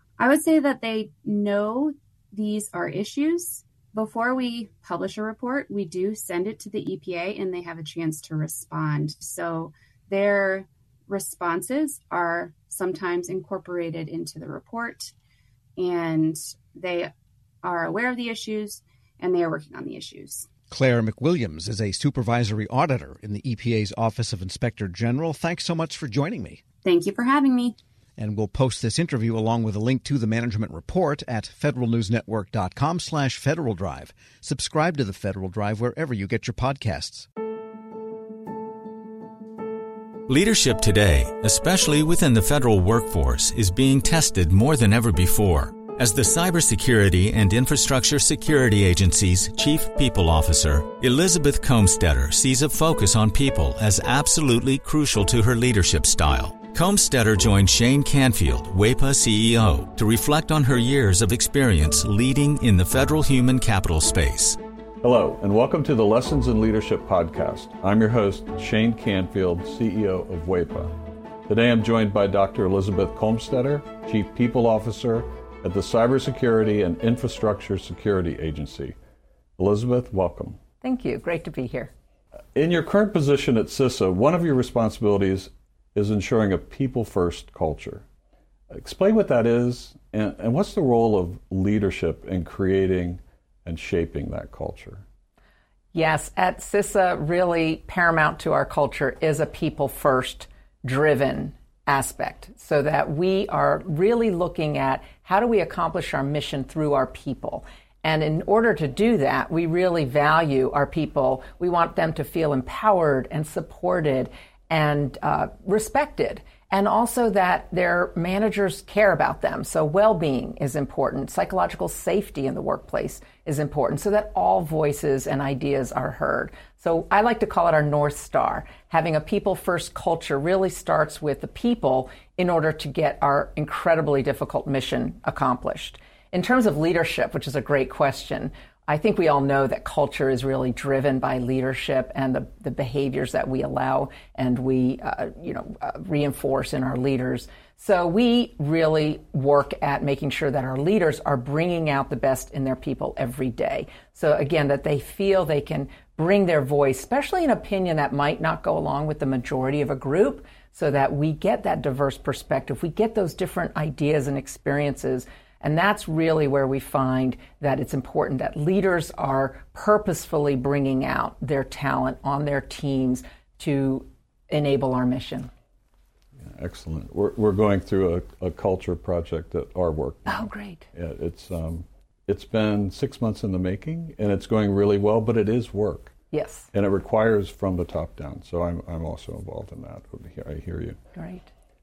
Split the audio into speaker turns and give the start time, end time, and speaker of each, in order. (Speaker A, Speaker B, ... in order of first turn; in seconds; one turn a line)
Speaker A: 0.2-15.1
Speaker A: 15.8-17.1
Speaker A: 17.6-20.5
Speaker B: 20.7-26.6
Speaker A: 26.8-27.8
Speaker B: 28.2-37.3
Speaker C: 40.3-64.6
Speaker D: 65.0-70.9
Speaker D: 71.5-79.0
Speaker D: 79.6-80.6
Speaker E: 80.8-81.9
Speaker D: 82.5-88.0
Speaker D: 88.7-95.0
Speaker E: 95.9-175.5
Speaker D: 176.4-186.1
Speaker E: 180.3-180.9
Speaker E: 186.3-186.7
Speaker D: 186.7-191.0
Speaker E: 191.2-191.5